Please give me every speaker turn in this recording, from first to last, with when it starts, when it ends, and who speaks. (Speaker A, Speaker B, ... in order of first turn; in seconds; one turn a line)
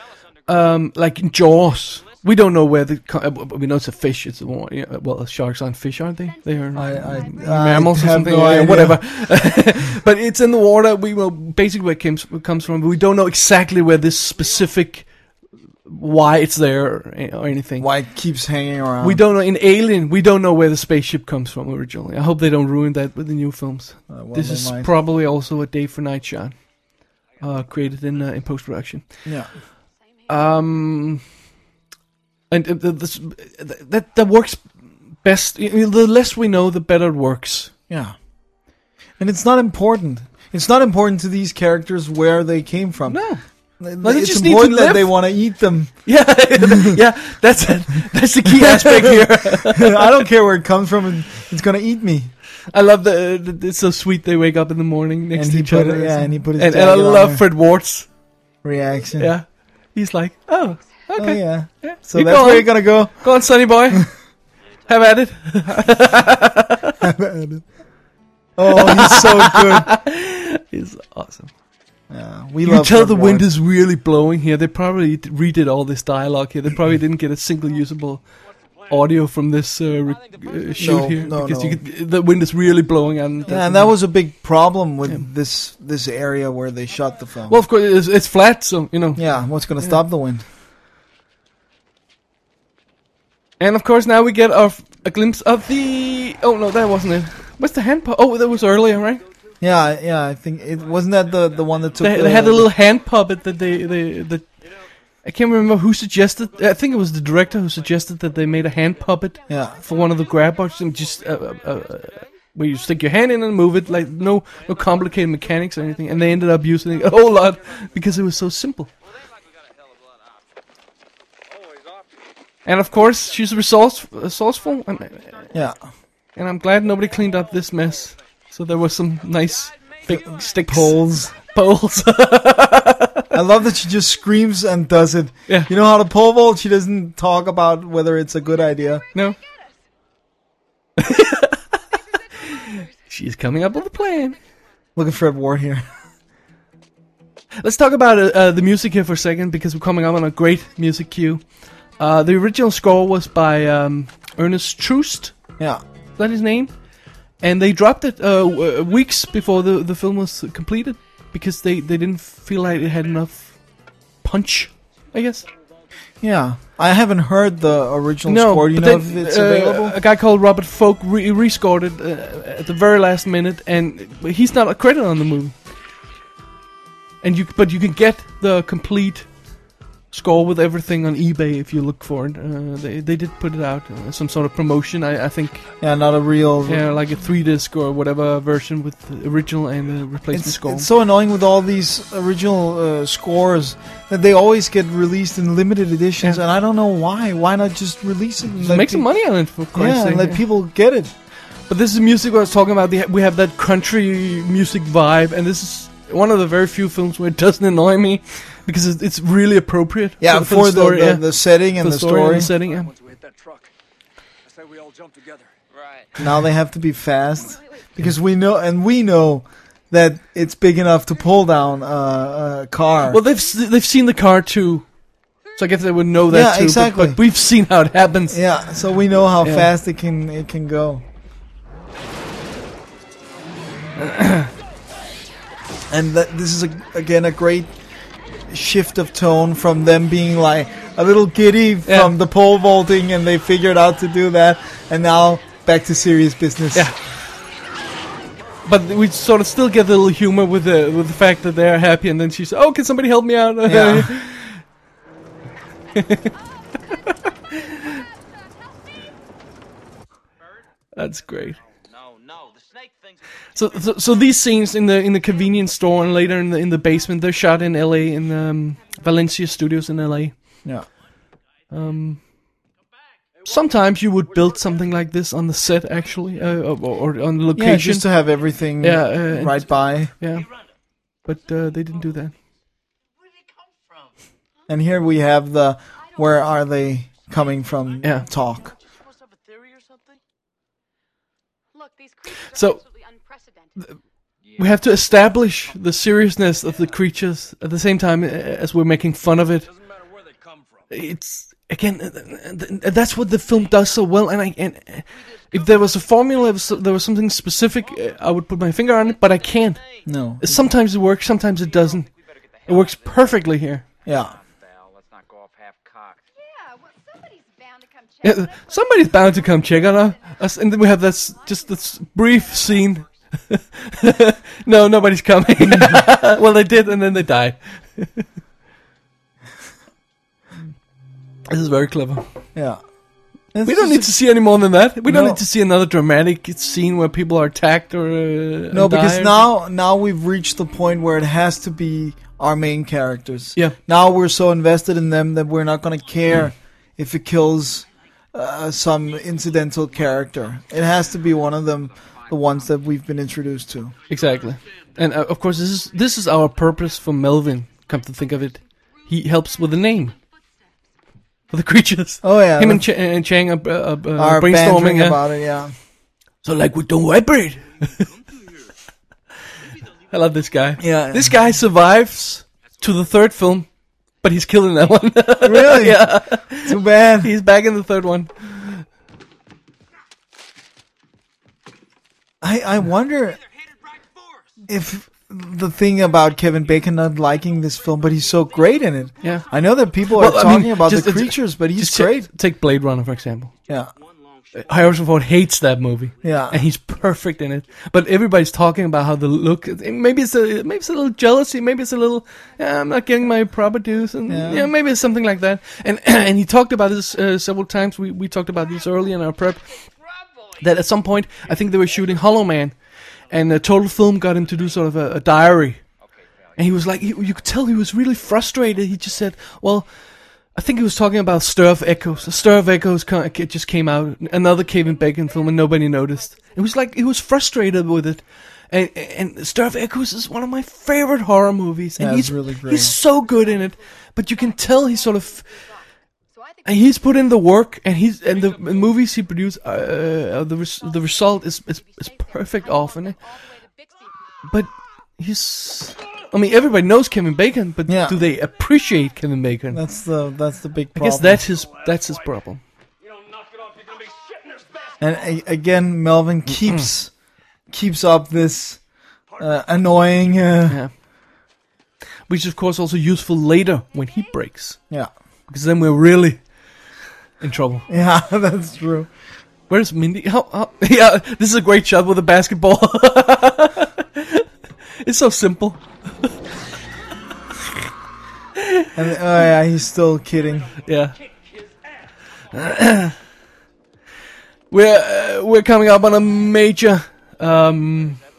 Speaker A: 0.5-15.1
Speaker B: 6.2-7.9
Speaker C: 6.7-9.0
Speaker A: 15.8-17.9
Speaker C: 17.8-19.2
Speaker A: 19.0-26.6
Speaker C: 24.1-24.9
Speaker A: 27.4-29.1
Speaker C: 29.2-29.5
Speaker B: 30.0-30.6
Speaker A: 30.3-31.2
Speaker A: 32.5-37.7
Speaker C: 37.9-38.1
Speaker C: 39.2-43.2
Speaker A: 43.1-43.4
Speaker C: 43.8-45.9
Speaker A: 44.0-45.1
Speaker A: 46.0-50.1
Speaker C: 46.6-47.0
Speaker C: 48.5-52.3
Speaker A: 52.7-58.1
Speaker C: 55.3-57.4
Speaker C: 58.6-59.3
Speaker A: 59.2-64.1
Speaker C: 61.2-63.3
Speaker A: 64.9-67.0
Speaker C: 67.0-67.6
Speaker C: 68.6-69.9
Speaker A: 68.7-71.5
Speaker C: 72.1-73.5
Speaker A: 72.6-78.2
Speaker A: 78.9-83.9
Speaker D: 80.3-81.1
Speaker C: 80.8-81.8
Speaker D: 82.9-83.7
Speaker C: 83.5-87.6
Speaker A: 87.5-89.3
Speaker C: 89.2-90.4
Speaker A: 93.6-99.2
Speaker D: 98.7-99.3
Speaker C: 99.6-102.7
Speaker D: 100.7-102.7
Speaker A: 102.0-104.4
Speaker A: 105.2-118.9
Speaker D: 107.8-109.0
Speaker B: 109.5-111.4
Speaker C: 109.5-109.8
Speaker D: 114.8-115.1
Speaker D: 115.8-117.6
Speaker D: 119.0-120.4
Speaker A: 122.6-125.4
Speaker D: 124.9-125.5
Speaker C: 125.5-125.8
Speaker A: 126.3-133.3
Speaker C: 130.1-131.3
Speaker C: 133.3-139.0
Speaker B: 139.1-139.7
Speaker A: 141.0-141.8
Speaker B: 142.3-142.9
Speaker A: 142.4-144.4
Speaker C: 144.9-145.8
Speaker A: 147.6-151.4
Speaker A: 152.0-155.3
Speaker A: 156.2-156.7
Speaker A: 157.4-163.6
Speaker A: 164.2-165.4
Speaker C: 166.2-170.0
Speaker A: 168.3-175.6
Speaker A: 177.2-179.3
Speaker A: 180.1-185.7
Speaker C: 185.8-186.8
Speaker A: 186.7-190.9
Speaker C: 190.3-199.1
Speaker A: 198.6-200.4
Speaker C: 199.7-201.1
Speaker A: 201.7-211.2
Speaker C: 210.2-212.5
Speaker A: 211.8-212.9
Speaker E: 212.6-213.7
Speaker E: 214.5-215.5
Speaker D: 215.7-216.2
Speaker C: 216.2-223.2
Speaker A: 223.1-224.9
Speaker A: 225.6-228.4
Speaker C: 226.3-227.2
Speaker C: 228.3-231.0
Speaker A: 229.4-229.7
Speaker A: 234.0-234.5
Speaker C: 235.9-237.7
Speaker C: 238.5-246.9
Speaker A: 241.8-242.1
Speaker A: 248.6-254.6
Speaker C: 253.6-254.1
Speaker A: 255.9-256.3
Speaker B: 256.7-258.9
Speaker A: 257.5-257.9
Speaker A: 260.9-261.6
Speaker D: 261.5-264.1
Speaker A: 263.5-270.4
Speaker B: 266.6-269.3
Speaker A: 271.7-272.2
Speaker A: 273.4-278.1
Speaker C: 277.5-280.1
Speaker A: 278.8-280.5
Speaker A: 281.2-282.3
Speaker C: 284.7-288.7
Speaker B: 291.7-293.9
Speaker A: 292.5-292.8
Speaker D: 294.4-295.2
Speaker A: 294.6-299.7
Speaker E: 299.7-300.9
Speaker A: 300.9-309.8
Speaker D: 305.5-305.9
Speaker D: 307.8-308.1
Speaker D: 308.8-310.1
Speaker C: 310.1-310.6
Speaker A: 310.4-312.1
Speaker D: 311.4-313.5
Speaker A: 312.6-313.8
Speaker C: 314.0-314.3
Speaker D: 314.0-316.2
Speaker B: 316.3-323.1
Speaker A: 318.2-328.2
Speaker C: 325.7-326.0
Speaker A: 331.5-332.2
Speaker C: 332.5-332.8
Speaker C: 333.5-334.1
Speaker A: 333.6-339.5
Speaker C: 335.1-335.4
Speaker C: 338.7-353.9
Speaker D: 349.8-350.2
Speaker D: 351.6-352.8
Speaker A: 354.1-360.1
Speaker D: 354.1-354.4
Speaker B: 358.3-360.4
Speaker A: 361.5-365.2
Speaker C: 362.2-362.8
Speaker C: 364.2-365.7
Speaker A: 366.4-368.0
Speaker D: 367.8-368.4
Speaker A: 370.1-373.7
Speaker C: 370.8-371.3
Speaker A: 374.2-378.8
Speaker C: 375.4-376.1
Speaker C: 376.6-377.3
Speaker C: 382.4-383.4
Speaker C: 384.7-392.3
Speaker A: 389.2-389.5
Speaker A: 390.0-393.5
Speaker D: 393.7-395.2
Speaker A: 394.5-409.6
Speaker C: 396.2-396.6
Speaker C: 404.3-404.7
Speaker A: 410.6-412.8
Speaker A: 413.3-415.8
Speaker D: 416.0-417.5
Speaker A: 416.6-419.9
Speaker A: 420.5-435.4
Speaker B: 425.2-426.6
Speaker C: 432.0-432.9
Speaker B: 432.7-433.7
Speaker B: 434.3-435.8
Speaker B: 436.3-437.3
Speaker A: 436.6-443.2
Speaker B: 440.9-444.5
Speaker A: 444.4-449.8
Speaker C: 447.9-448.2
Speaker C: 449.7-451.4
Speaker A: 450.9-452.6
Speaker E: 453.0-455.0
Speaker C: 455.0-457.1
Speaker A: 456.5-456.9
Speaker C: 457.7-458.8
Speaker C: 459.4-460.8
Speaker A: 460.7-460.9
Speaker A: 462.3-464.8
Speaker A: 465.5-466.4
Speaker A: 467.4-467.8
Speaker C: 467.9-469.1
Speaker A: 469.7-474.4
Speaker A: 475.0-476.3
Speaker A: 478.6-478.9
Speaker C: 478.9-480.8
Speaker A: 480.8-481.2
Speaker A: 482.5-483.1
Speaker A: 484.7-488.2